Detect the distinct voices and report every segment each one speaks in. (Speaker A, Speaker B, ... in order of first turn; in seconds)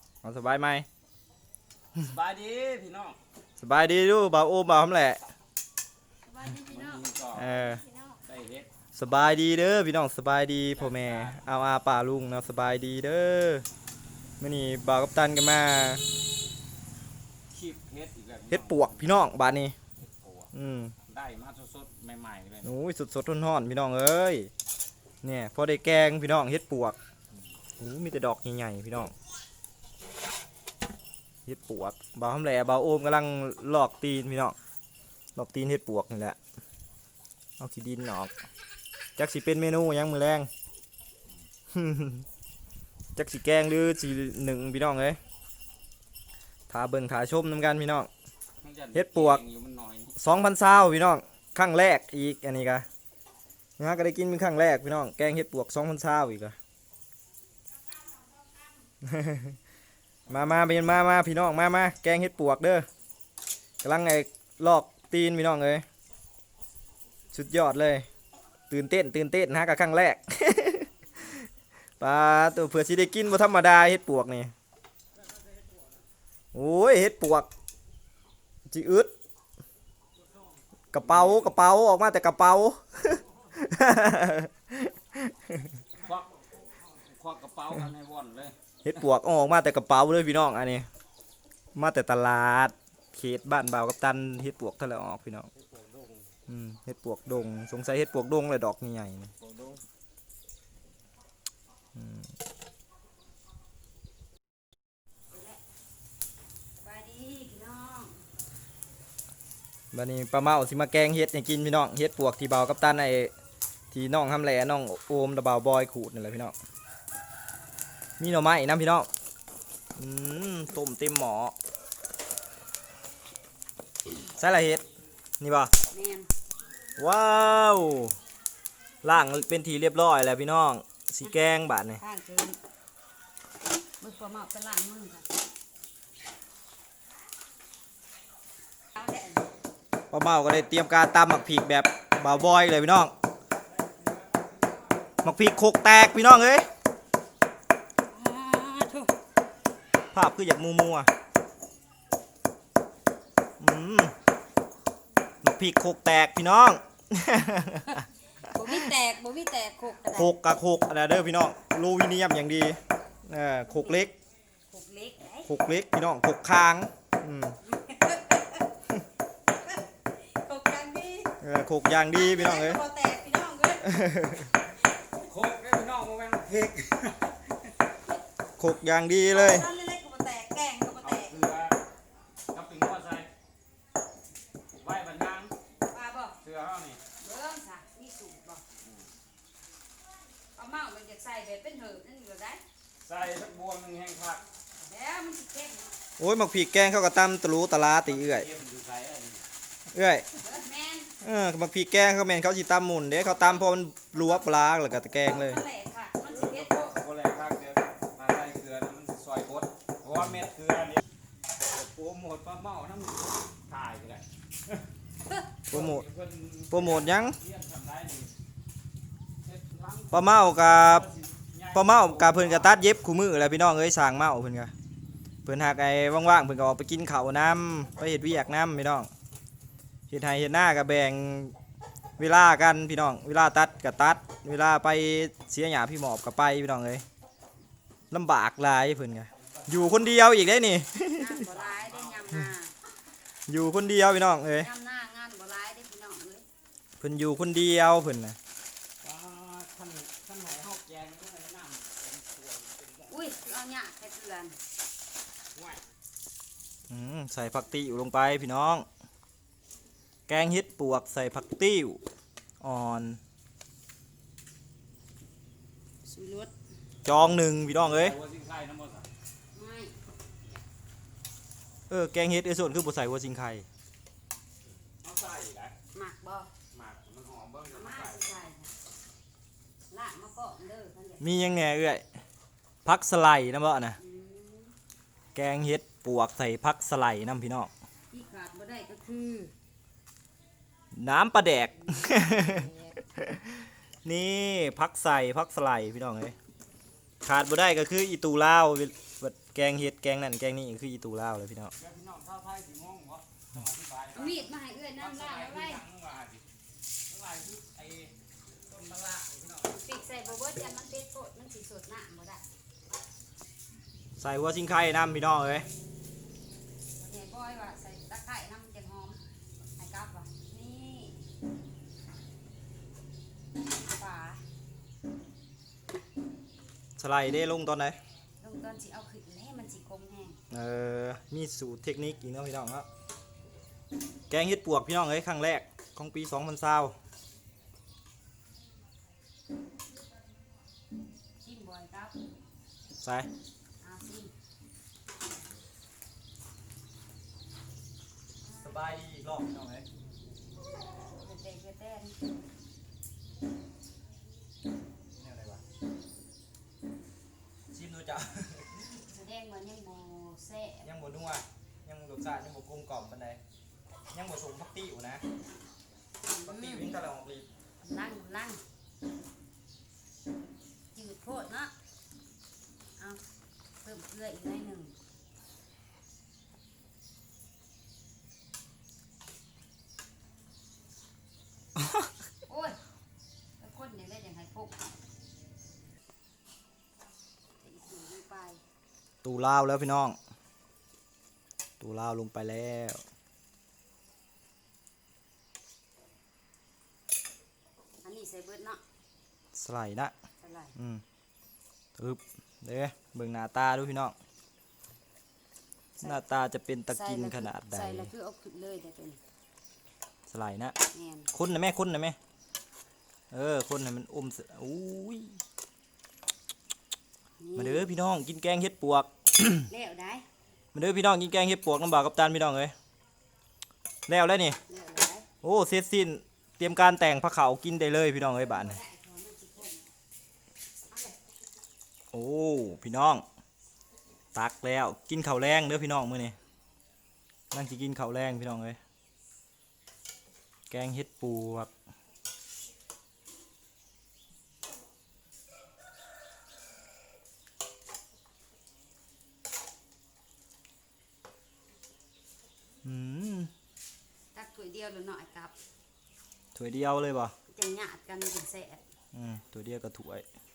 Speaker A: 0.2-0.9, 3.6-5.2, 7.3-7.8, 8.9-13.7, 14.4-16.1, 18.5-19.8, 20.5-21.0, 22.6-24.5, 25.2-27.0, 27.8-29.1, 31.5-34.6, 35.4-36.4, 37.6-38.3, 39.2-40.5, 41.7-42.3, 43.1-45.2, 46.7-48.1, 48.9-49.4, 50.2-52.9, 53.8-56.6, 59.0-59.6, 60.3-62.9, 63.8-65.8, 67.3-68.1, 68.7-71.5, 72.0-74.5, 76.5-77.5, 78.7-79.1, 80.9-85.7, 88.8-90.9, 91.8-95.5, 96.5-99.3, 102.0-102.3, 109.9-113.3, 113.9-116.5, 118.2-119.1, 120.0-121.5, 124.3-124.8, 125.4-125.7, 127.0-128.2, 129.0-132.0, 140.1-143.1, 145.2-146.7, 150.1-151.1, 153.6-154.2, 155.4-158.1, 158.6-158.9, 160.1-164.1, 165.4-167.6, 171.4-172.8, 173.8-174.5, 178.6-179.7, 196.2-198.5, 199.9-200.3, 201.2-205.6, 215.7-216.1, 216.7-217.4, 220.1-221.1, 221.7-224.7, 225.4-229.1, 230.1-231.6, 232.2-237.0, 238.1-241.4, 243.5-244.7, 247.0-248.4, 256.9-258.9, 260.3-262.0, 262.6-263.2, 267.1-268.2, 271.9-273.7, 281.2-282.1, 282.9-284.0, 285.4-287.7, 290.9-296.4, 297.2-301.7, 314.2-315.7, 327.0-328.0, 330.5-332.9, 334.3-337.0, 343.0-343.3, 348.6-349.9, 355.2-355.6, 357.7-358.8, 360.8-363.4, 364.1-365.2, 366.4-367.5, 389.2-390.2, 391.8-393.0, 399.5-400.1, 400.8-401.0, 402.0-404.2, 406.0-408.1, 410.3-410.8, 411.3-412.2, 413.3-415.4, 417.6-419.7, 420.8-422.7, 424.1-424.6, 425.4-428.8, 432.1-433.2, 434.4-436.4, 437.5-438.8, 440.7-441.7, 452.8-453.5, 456.6-457.4, 459.1-460.3
Speaker B: 1.9-3.2, 6.6-7.7, 8.2-8.7, 10.7-11.5, 17.5-19.2, 20.0-20.5, 21.1-22.7, 48.6-50.2, 81.0-81.6, 86.0-86.3, 86.8-88.5, 95.5-96.3, 99.4-99.8, 144.0-144.5, 175.2-177.6, 181.0-181.8, 182.5-183.3, 184.8-185.6, 186.4-187.0, 188.8-189.1, 193.0-194.4, 198.1-199.4, 206.3-211.0, 211.6-214.8, 215.7-218.3, 219.4-222.8, 239.4-240.2, 241.4-242.4, 249.0-253.3, 255.5-255.8, 267.1-269.1, 274.9-275.7, 276.7-278.3, 301.8-306.4, 307.1-310.1
Speaker C: 6.3-7.0, 105.3-105.6, 106.8-108.2, 125.9-126.3, 132.0-132.6, 134.0-135.3, 138.9-139.5, 148.1-149.1, 158.4-160.4, 163.7-164.1, 164.7-165.5, 167.6-168.6, 170.2-171.3, 172.1-173.9, 179.3-181.4, 185.9-186.4, 187.2-188.6, 190.6-192.6, 194.7-195.9, 200.3-201.1, 205.2-207.0, 241.2-242.7, 244.5-246.5, 253.1-254.6, 266.0-266.5, 269.5-270.0, 275.9-276.5, 277.7-278.7, 279.9-281.4, 284.0-284.8, 288.1-289.5, 291.8-293.0, 304.1-305.9, 309.7-312.4, 317.0-319.2, 319.8-321.2, 323.7-324.4, 328.4-330.4, 341.4-342.1, 343.8-344.3, 348.4-349.0, 351.1-352.2, 358.8-360.9, 366.3-366.9, 367.8-368.6, 370.9-371.7, 373.8-374.9, 382.5-382.8, 383.6-384.8, 387.6-388.6, 398.0-398.8, 400.4-400.8, 406.9-409.2, 410.9-411.3, 417.4-417.9, 419.7-420.3, 424.7-425.3, 428.3-429.9, 430.9-431.2, 454.3-455.5, 457.5-458.8